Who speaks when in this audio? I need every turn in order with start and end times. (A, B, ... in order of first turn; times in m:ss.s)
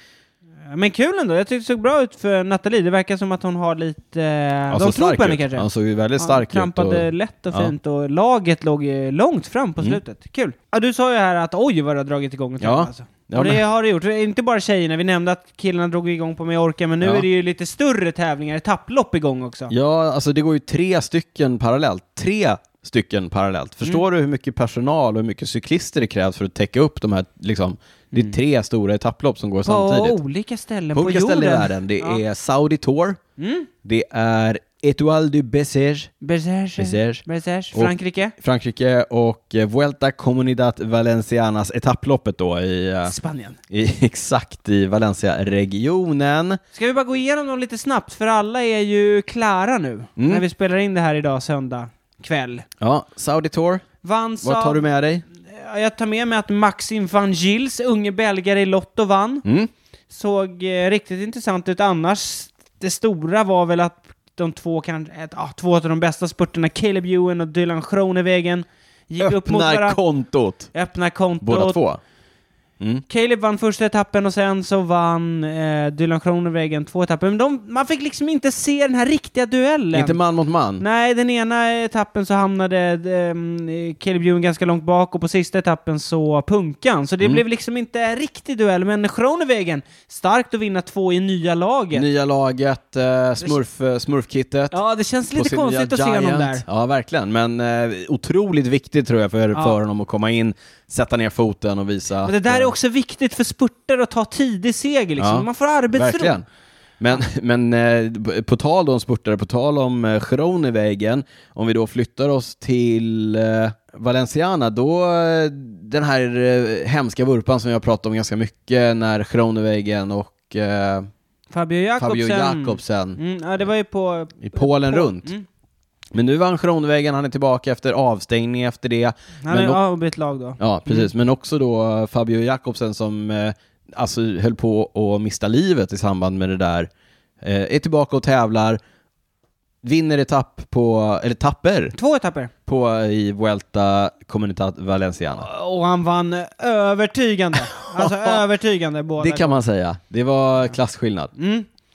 0:00.6-0:05.7 A
0:04.7-0:07.7 B
0:06.2-0:19.7 A
0:12.6-0:13.6 B
0:17.0-0:17.2 B
0:19.7-0:30.2 B
0:29.6-0:32.2 A
0:30.9-0:33.2 B
0:33.4-0:33.7 A
0:33.8-0:36.1 B
0:36.2-0:38.3 A
0:36.8-0:43.2 B
0:43.0-0:43.6 A
0:43.7-0:46.6 B
0:46.7-0:52.6 A
0:50.2-0:50.4 B
0:52.8-0:53.8 B
0:54.0-0:54.8 A
0:54.4-0:55.2 B
0:55.4-0:59.4 A
0:59.4-0:59.7 B
1:00.1-1:10.0 A
1:09.2-1:10.7 B
1:10.7-1:11.8 A
1:11.4-1:12.0 B
1:13.1-1:20.2 A
1:19.9-1:20.8 B
1:20.8-1:32.1 A
1:31.9-1:34.8 B
1:34.7-1:36.6 A
1:35.3-1:42.7 B
1:42.2-1:46.4 A
1:45.2-1:46.4 B
1:47.0-2:01.1 B
2:01.5-2:05.4 A
2:02.0-2:03.2 B
2:04.4-2:05.3 B
2:06.1-2:09.8 B
2:09.4-2:11.1 A
2:10.6-2:16.9 B
2:17.4-2:18.8 B
2:19.8-2:21.9 B
2:21.9-2:22.5 A
2:22.6-2:25.5 B
2:25.4-2:29.6 A
2:27.8-2:28.4 B
2:29.2-2:31.3 B
2:31.4-2:31.7 A